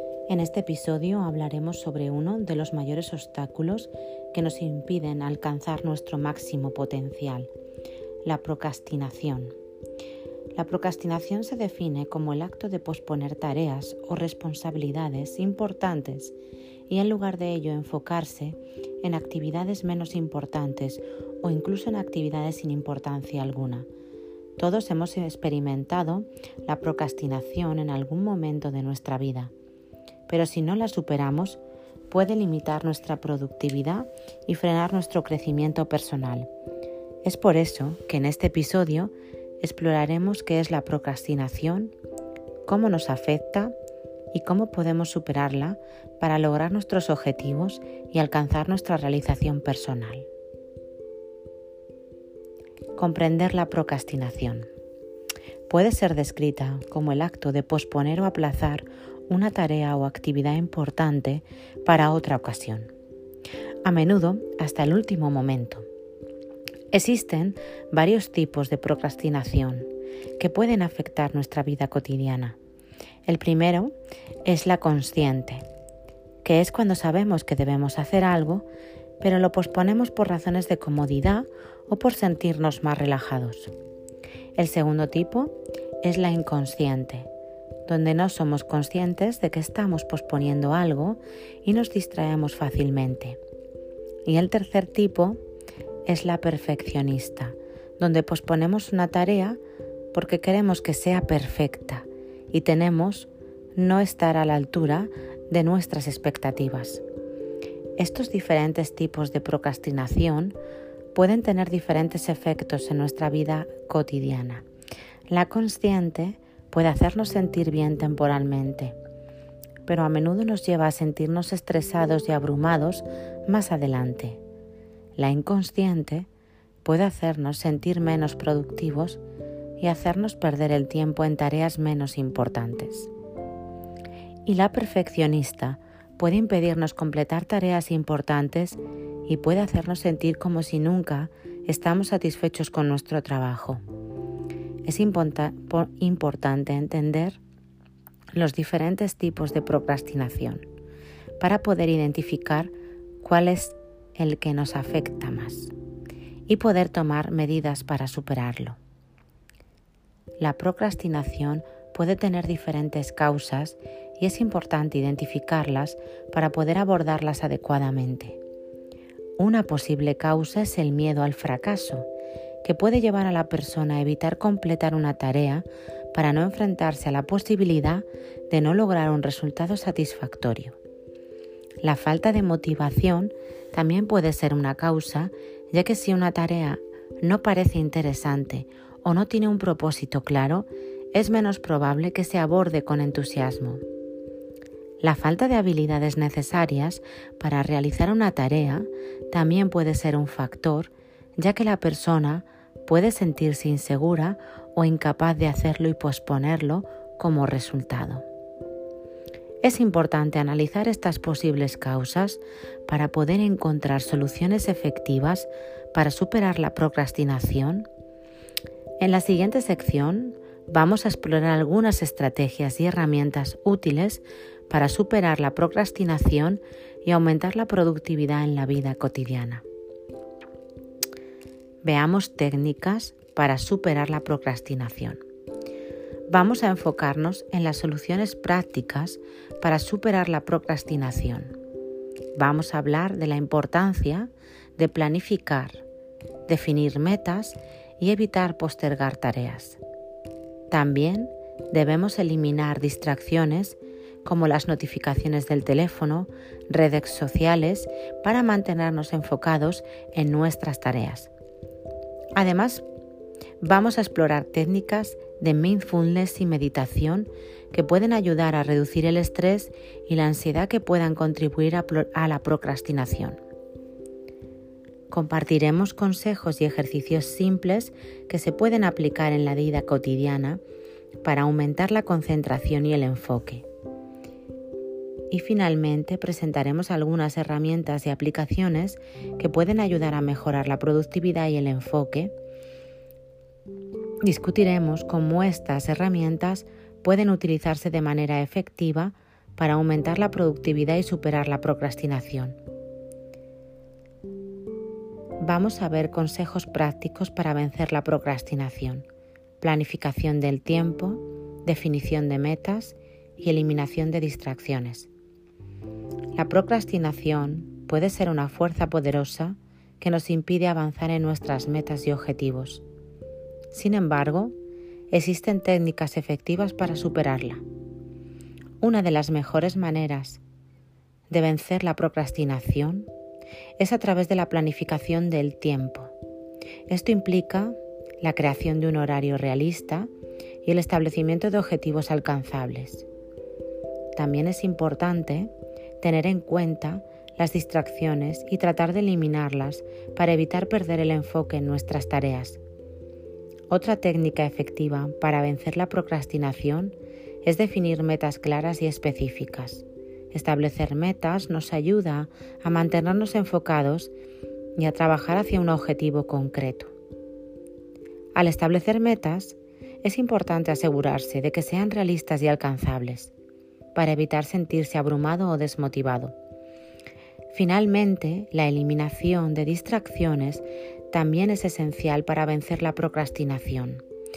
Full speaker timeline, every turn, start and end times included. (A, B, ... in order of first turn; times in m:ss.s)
0:00.3-0:07.5 A
0:08.2-0:09.6 A
0:10.6-0:16.3 A
0:16.9-0:23.9 A
0:24.6-0:29.5 A
0:30.3-0:36.5 A
0:37.2-0:41.9 A
0:42.7-0:43.8 A
0:44.3-0:50.3 A
0:53.0-0:54.7 A
0:55.7-1:02.9 A
1:03.8-1:05.9 A
1:06.9-1:12.6 A
1:13.3-1:13.9 A
1:14.4-1:15.7 A
1:16.4-1:18.7 A
1:19.2-1:23.7 A
1:24.6-1:27.3 A
1:27.9-1:33.4 A
1:34.2-1:35.4 A
1:36.1-1:39.6 A
1:40.1-1:47.0 A
1:48.0-1:50.6 A
1:51.1-1:54.6 A
1:55.3-1:59.0 A
1:59.8-2:04.4 A
2:05.2-2:06.3 A
2:06.8-2:09.2 A
2:09.8-2:13.1 A
2:14.4-2:23.8 A
2:24.8-2:27.4 A
2:28.3-2:30.7 A
2:31.4-2:35.7 A
2:36.5-2:38.8 A
2:40.4-2:48.4 A
2:49.4-2:52.1 A
2:52.6-3:00.8 A
3:01.8-3:13.8 A
3:15.0-3:28.2 A
3:29.6-3:37.9 A
3:39.0-3:49.6 A
3:51.8-3:55.2 A
3:56.3-4:01.5 A
4:02.4-4:05.8 A
4:06.5-4:09.8 A
4:10.7-4:21.3 A
4:22.4-4:22.8 A
4:23.6-4:33.4 A
4:35.1-4:40.6 A
4:41.2-4:43.6 A
4:45.3-4:52.3 A
4:54.2-5:02.6 A
5:05.4-5:09.1 A
5:09.6-5:15.1 A
5:16.4-5:22.8 A
5:23.7-5:24.5 A
5:25.1-5:27.6 A
5:28.8-5:30.4 A
5:31.3-5:33.1 A
5:33.8-5:36.1 A
5:36.9-5:40.1 A
5:40.6-5:43.1 A
5:44.2-5:52.6 A
5:53.7-6:04.1 A
6:04.8-6:06.9 A
6:08.4-6:13.3 A
6:14.0-6:16.3 A
6:17.5-6:24.0 A